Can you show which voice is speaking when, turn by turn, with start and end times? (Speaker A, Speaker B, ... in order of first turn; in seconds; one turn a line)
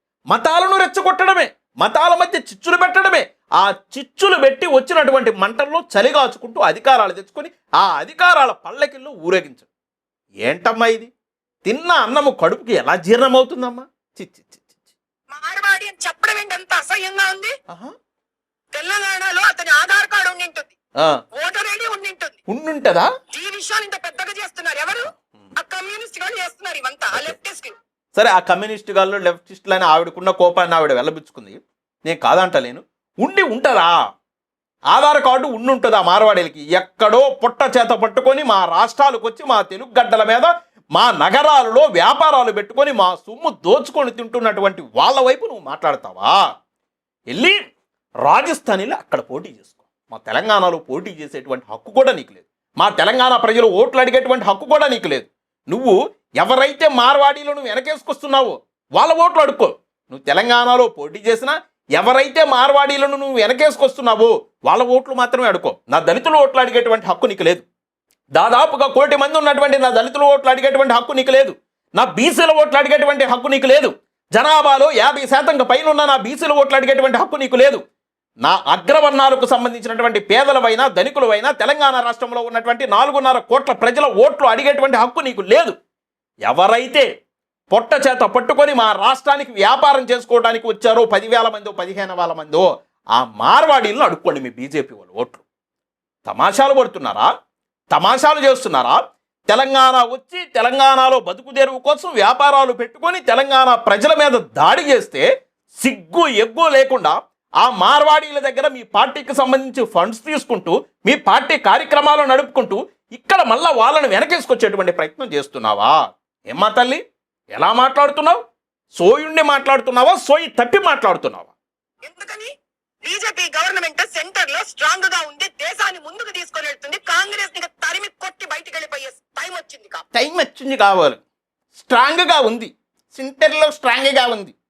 Speaker A: 0.3-9.7
Speaker A: 10.4-11.1
Speaker A: 11.6-14.9
Speaker B: 15.3-17.5
Speaker B: 18.7-20.7
Speaker B: 21.3-22.4
Speaker A: 22.5-23.1
Speaker B: 23.3-27.8
Speaker A: 28.1-33.9
Speaker A: 34.9-46.4
Speaker A: 47.3-47.6
Speaker A: 48.2-67.7
Speaker A: 68.3-77.8
Speaker A: 78.4-85.8
Speaker A: 86.5-87.1
Speaker A: 87.7-95.4
Speaker A: 96.2-97.3
Speaker A: 97.9-105.2
Speaker A: 105.8-116.0
Speaker A: 116.5-117.0
Speaker A: 117.5-118.4
Speaker A: 118.9-121.5
Speaker B: 122.0-122.5
Speaker B: 123.0-130.0
Speaker A: 130.1-131.2
Speaker A: 131.7-134.5